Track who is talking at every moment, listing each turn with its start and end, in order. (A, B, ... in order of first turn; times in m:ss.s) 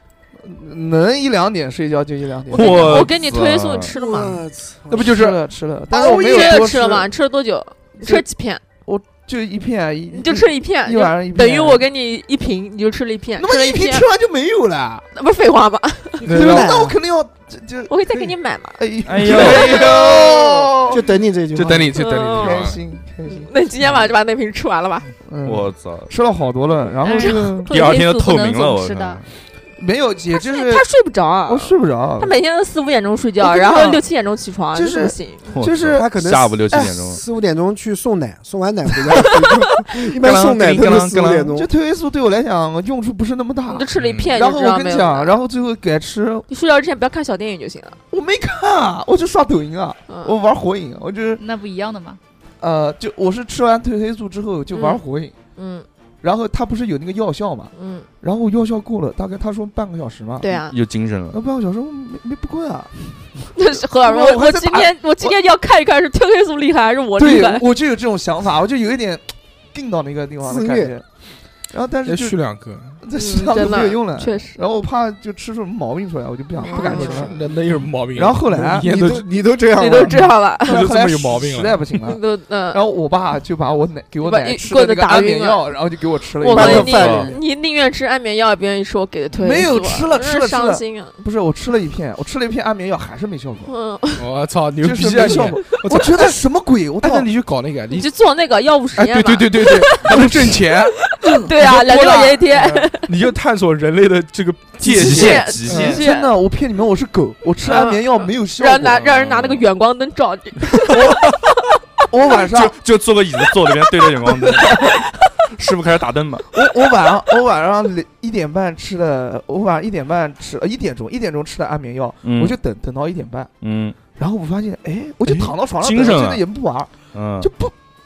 0:00.4-0:03.0 A
0:02.5-0:04.4 B
0:02.5-0:03.9 C
0:03.9-0:05.1 D
0:04.9-0:05.4 E
0:05.0-0:07.1 A
0:05.9-0:08.6 B
0:08.8-0:11.8 A
0:10.1-0:14.1 B
0:13.4-0:15.0 A
0:15.1-0:16.3 B
0:16.2-0:16.8 E
0:16.2-0:18.2 A
0:16.3-0:17.0 D
0:17.9-0:20.0 B
0:18.8-0:21.1 A
0:19.0-0:20.5 C
0:20.9-0:21.9 D
0:21.5-0:22.8 E
0:22.0-0:22.7 B
0:22.4-0:24.0 A
0:23.3-0:25.1 B
0:25.2-0:27.7 A
0:25.4-0:26.1 C
0:27.0-0:27.6 B
0:27.0-0:29.2 F
0:27.7-0:29.3 C
0:29.8-0:30.8 A
0:30.4-0:35.5 B
0:31.4-0:32.3 A
0:33.4-0:34.0 A
0:34.7-0:37.0 A
0:35.5-0:37.2 C
0:35.9-0:41.7 D
0:40.2-0:41.5 C
0:40.3-0:46.5 A
0:43.7-0:45.3 B
0:44.0-0:44.3 E
0:46.5-0:48.0 B
0:48.1-0:51.4 A
0:50.1-0:50.3 B
0:51.4-0:52.2 F
0:52.6-0:55.4 A
0:54.7-0:55.0 B
0:55.6-0:55.8 B
0:56.2-1:00.6 A
0:57.7-0:58.1 B
1:00.4-1:00.8 B
1:00.6-1:01.4 C
1:01.3-1:05.3 A
1:03.6-1:07.7 B
1:07.2-1:11.0 A
1:10.4-1:10.9 D
1:11.7-1:12.4 A
1:12.0-1:13.0 E
1:13.0-1:17.5 A
1:13.1-1:14.6 B
1:16.6-1:17.4 B
1:16.7-1:19.4 E
1:18.1-1:18.9 A
1:18.5-1:20.1 D
1:19.8-1:20.8 B
1:20.1-1:21.8 E
1:20.6-1:22.2 A
1:22.0-1:22.8 B
1:22.7-1:27.4 A
1:24.2-1:25.8 B
1:26.4-1:31.2 B
1:26.5-1:27.4 D
1:26.7-1:27.3 C
1:29.3-1:33.7 A
1:33.7-1:34.2 B
1:34.2-1:36.3 E
1:34.8-1:37.3 A
1:37.0-1:38.1 E
1:37.9-1:43.1 B
1:38.9-1:46.0 E
1:44.8-1:49.0 A
1:44.9-1:46.0 C
1:45.0-1:46.3 B
1:47.6-1:51.4 B
1:49.0-1:49.5 E
1:50.9-1:51.2 A
1:52.1-1:52.8 A
1:52.5-1:54.7 C
1:54.3-1:55.0 A
1:55.5-1:56.5 C
1:56.5-2:03.5 A
2:02.2-2:02.6 C
2:03.6-2:04.0 C
2:04.1-2:07.7 A
2:05.2-2:06.4 C
2:07.1-2:07.5 C